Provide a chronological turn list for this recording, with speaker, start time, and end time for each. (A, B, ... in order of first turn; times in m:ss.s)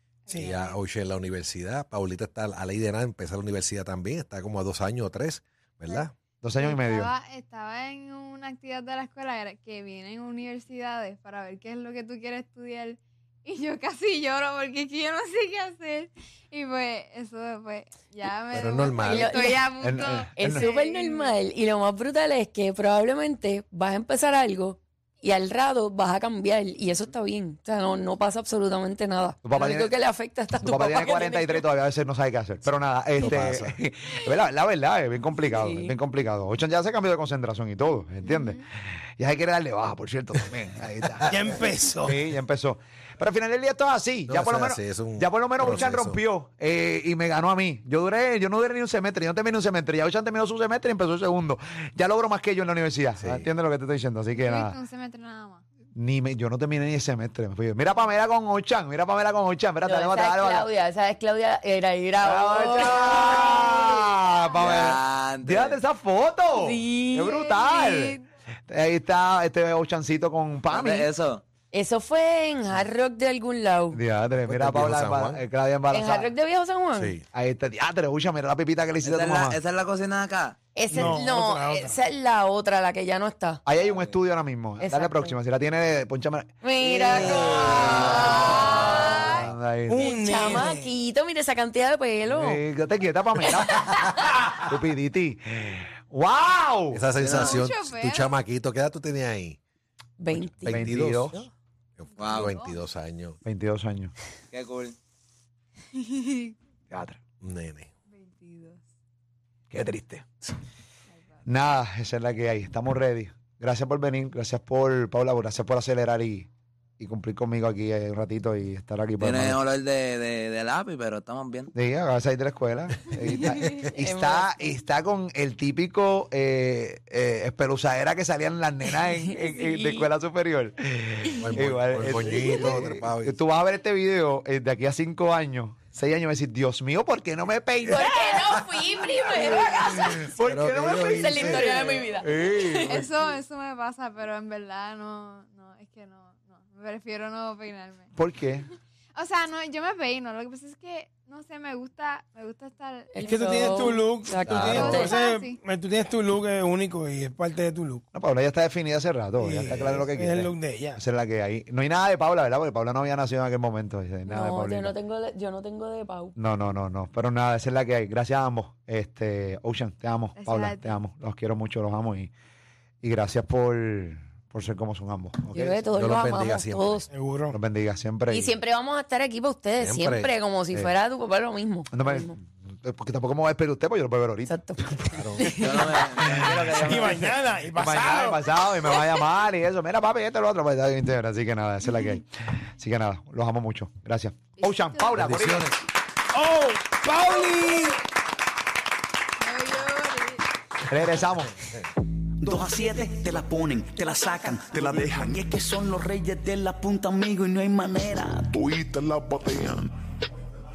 0:00.3-0:00.8 A
0:00.3-0:00.6 B
0:00.4-0:06.1 C
0:06.4-0:07.1 D
0:06.6-0:21.3 A
0:18.5-0:19.5 C
0:19.0-0:19.6 E
0:19.8-0:20.7 D
0:20.4-0:31.6 E
0:29.4-0:30.0 D
0:30.6-0:41.3 D
0:33.2-0:33.8 C
0:35.5-0:35.9 E
0:38.2-0:38.6 A
0:41.3-0:42.2 B
0:42.0-0:54.8 D
0:44.3-0:46.2 C
0:53.2-0:53.5 C
0:54.4-0:55.6 A
0:55.9-1:00.7 D
0:59.8-1:03.2 E
1:02.2-1:11.1 D
1:03.2-1:03.6 A
1:04.6-1:05.8 F
1:06.6-1:07.4 E
1:07.3-1:08.2 A
1:10.7-1:11.4 F
1:11.7-1:14.0 E
1:13.9-1:16.3 D
1:14.4-1:15.4 C
1:15.9-1:17.1 E
1:17.0-1:17.2 C
1:17.3-1:19.6 D
1:19.0-1:20.6 F
1:20.8-1:23.6 E
1:20.9-1:22.0 B
1:23.6-1:30.1 D
1:23.8-1:24.1 F
1:24.8-1:25.3 E
1:26.6-1:29.4 E
1:27.0-1:29.1 F
1:28.4-1:29.4 A
1:29.9-1:30.9 B
1:30.0-1:32.6 E
1:32.3-1:37.0 D
1:33.5-1:34.2 E
1:36.9-1:39.6 C
1:37.2-1:37.6 F
1:37.2-1:38.3 A
1:40.2-1:41.4 E
1:40.4-1:41.4 C
1:40.7-1:41.4 D
1:42.0-1:43.4 C
1:42.2-1:42.6 F
1:42.2-1:42.8 A
1:43.4-1:44.1 D
1:44.5-1:45.0 F
1:45.9-1:46.5 A
1:46.9-1:47.2 D
1:47.4-1:47.9 C
1:48.1-1:48.8 A
1:49.7-1:50.3 D
1:51.4-1:59.6 D
1:59.2-2:01.7 F
2:01.7-2:23.1 D
2:03.2-2:04.5 E
2:09.3-2:10.1 E
2:11.4-2:13.4 C
2:17.9-2:20.3 E
2:20.4-2:21.9 C
2:21.2-2:23.0 E
2:22.8-2:28.1 A
2:28.2-2:28.7 D
2:29.1-2:34.0 A
2:33.1-2:35.2 E
2:33.2-2:38.0 B
2:34.4-2:34.9 C
2:34.6-2:35.6 A
2:38.1-2:44.9 D
2:39.4-2:41.0 B
2:44.3-2:46.4 E
2:46.4-2:52.3 D
2:50.4-2:51.0 A
2:53.0-2:55.8 D
2:55.5-2:57.1 E
2:55.9-2:57.1 C
2:57.1-2:57.6 B
2:57.5-2:58.5 D
2:58.3-3:02.4 E
2:59.8-3:00.3 C
3:01.9-3:04.5 D
3:04.5-3:05.8 E
3:05.1-3:05.5 C
3:05.6-3:07.4 F
3:06.2-3:08.5 B
3:07.7-3:15.7 D
3:14.6-3:15.2 A
3:15.1-3:15.8 C
3:16.3-3:18.0 B
3:19.4-3:20.4 A
3:20.8-3:21.5 D
3:22.4-3:28.6 G
3:24.7-3:25.3 H
3:28.5-3:29.9 H